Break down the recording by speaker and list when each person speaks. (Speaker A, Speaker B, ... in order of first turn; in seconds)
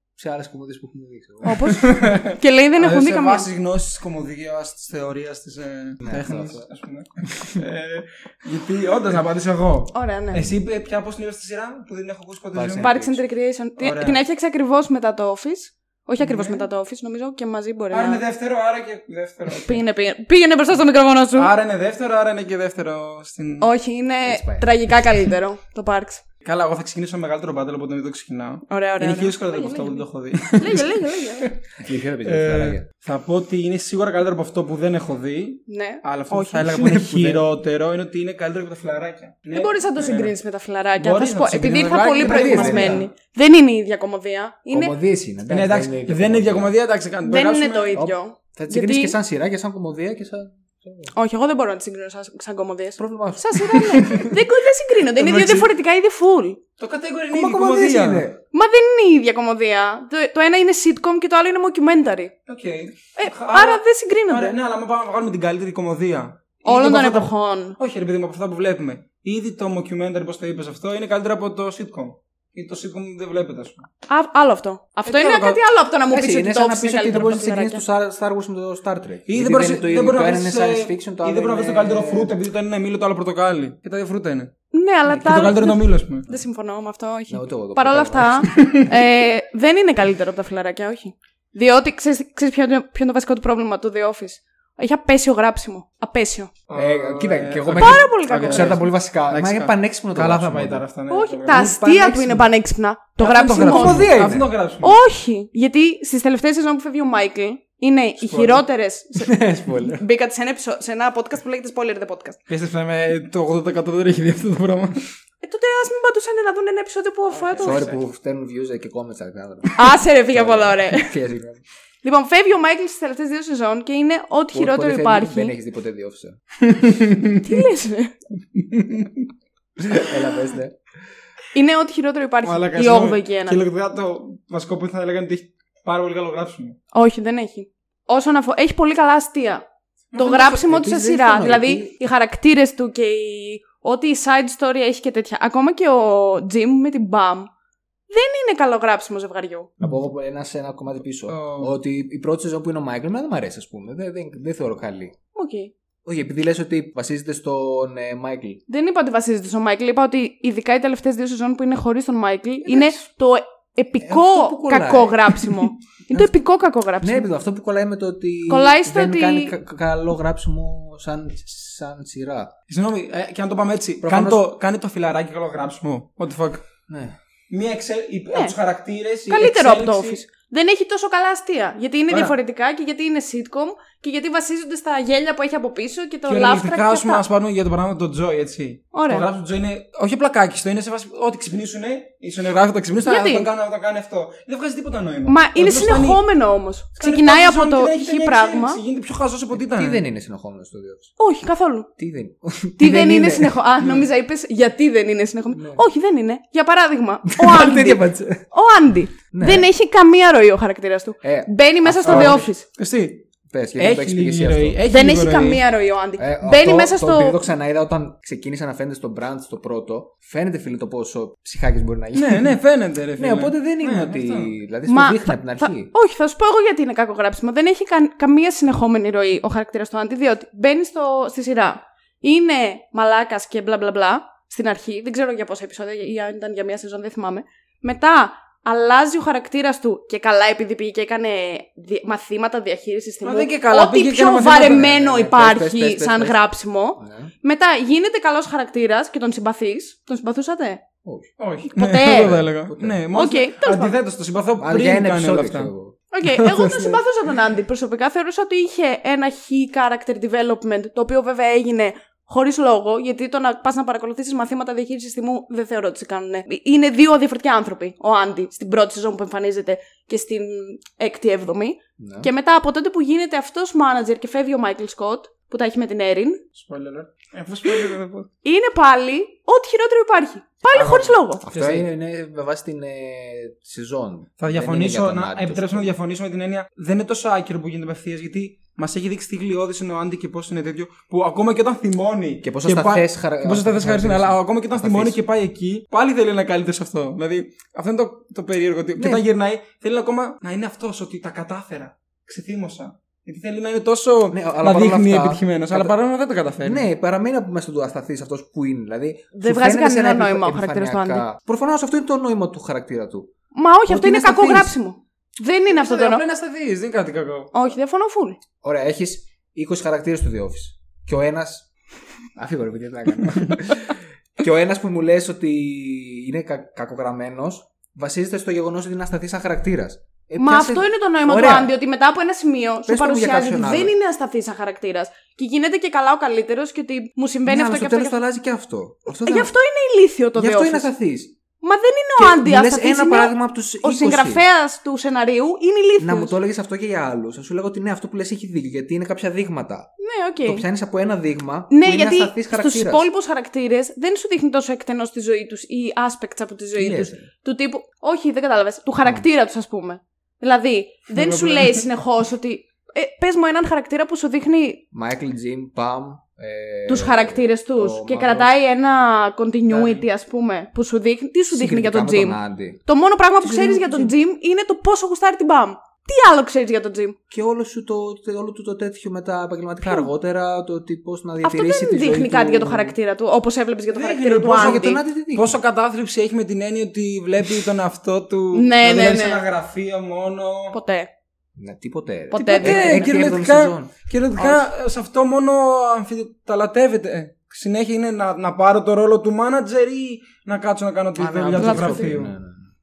Speaker A: 0.2-1.8, 6.0-6.6, 12.5-13.2, 24.2-24.9, 31.8-32.9, 36.6-37.4, 42.2-43.1, 44.7-46.7, 47.9-51.1, 53.0-54.3, 57.3-58.4, 76.1-82.3, 87.3-88.6, 96.7-100.8, 101.5-102.5, 103.2-104.5, 109.2-110.0, 117.6-121.6, 124.5-126.4, 129.8-130.9, 140.2-141.9, 149.8-155.2, 156.0-158.6, 164.0-165.6, 166.1-166.4, 167.0-172.5, 174.0-174.4, 176.9-177.2, 199.5-201.1, 202.0-203.6, 205.5-205.8, 207.4-208.4, 209.3-209.7, 211.2-212.4, 213.5-214.8, 216.2-222.5, 223.2-225.9, 244.5-246.4, 247.0-247.3, 251.0-251.3, 252.1-253.0, 254.6-255.9, 272.0-272.3, 281.4-286.0, 292.4-295.2, 299.0-299.2, 304.3-305.9, 306.6-313.3, 313.9-314.7, 318.6-321.7, 322.4-331.7, 332.9-333.9, 337.4-339.5, 340.3-341.4, 342.2-344.4, 346.0-349.9, 350.4-353.1, 356.8-357.3, 364.9-368.5, 369.7-370.0, 371.5-372.8, 373.4-374.1, 377.3-382.9, 384.5-385.6, 391.6-393.9, 401.1-402.7
Speaker B: 1.4-3.5, 9.9-10.5, 12.8-18.2, 19.5-21.5, 23.6-26.2, 28.7-31.5, 35.7-36.7, 39.5-44.9, 47.2-49.1, 51.1-56.6, 58.5-62.3, 63.1-64.5, 66.6-67.8, 74.1-77.8, 84.7-96.5, 97.8-98.8, 101.1-104.1, 104.8-112.4, 115.4-117.9, 119.8-121.1, 122.0-125.5, 127.4-128.1, 131.5-133.6, 136.9-147.5, 148.1-149.7, 155.3-155.7, 158.7-167.3, 168.5-169.5, 179.3-187.2, 188.9-189.2, 193.0-193.5, 195.2-198.8, 201.2-201.9, 202.8-212.7, 214.9-217.4, 224.9-250.8, 251.7-252.4, 253.1-253.9, 256.1-276.4, 278.4-281.4, 309.3-311.2, 313.5-316.2, 317.5-318.4, 330.4-338.2, 339.2-340.9, 341.6-346.3, 350.0-350.6, 351.7-364.8, 366.9-377.1, 379.8-380.1, 381.4-385.0, 388.5-389.4, 390.7-391.1, 392.3-393.1, 394.4-394.6, 401.6-402.1
Speaker C: 1.7-12.9, 13.8-14.2, 16.2-16.6, 17.9-19.8, 21.3-23.7, 26.4-31.5, 32.2-40.4, 41.0-43.1, 45.5-48.0, 55.0-55.7, 56.8-58.3, 62.5-73.9, 75.0-75.6, 79.3-84.5, 85.1-86.2, 88.5-88.9, 96.7-101.7, 103.2-105.0, 108.2-108.6, 112.5-115.1, 117.5-118.0, 126.6-127.4, 128.6-129.2, 132.4-136.8, 140.1-140.5, 151.3-151.8, 172.7-176.7, 177.5-180.2, 182.1-182.3, 186.3-196.2, 197.0-200.0, 203.8-204.1, 212.0-215.6, 222.1-224.5, 243.2-244.9, 251.4-255.7, 276.5-278.3, 280.7-281.9, 284.4-306.8, 315.7-317.5, 361.1-361.8, 383.9-390.8, 392.3-402.3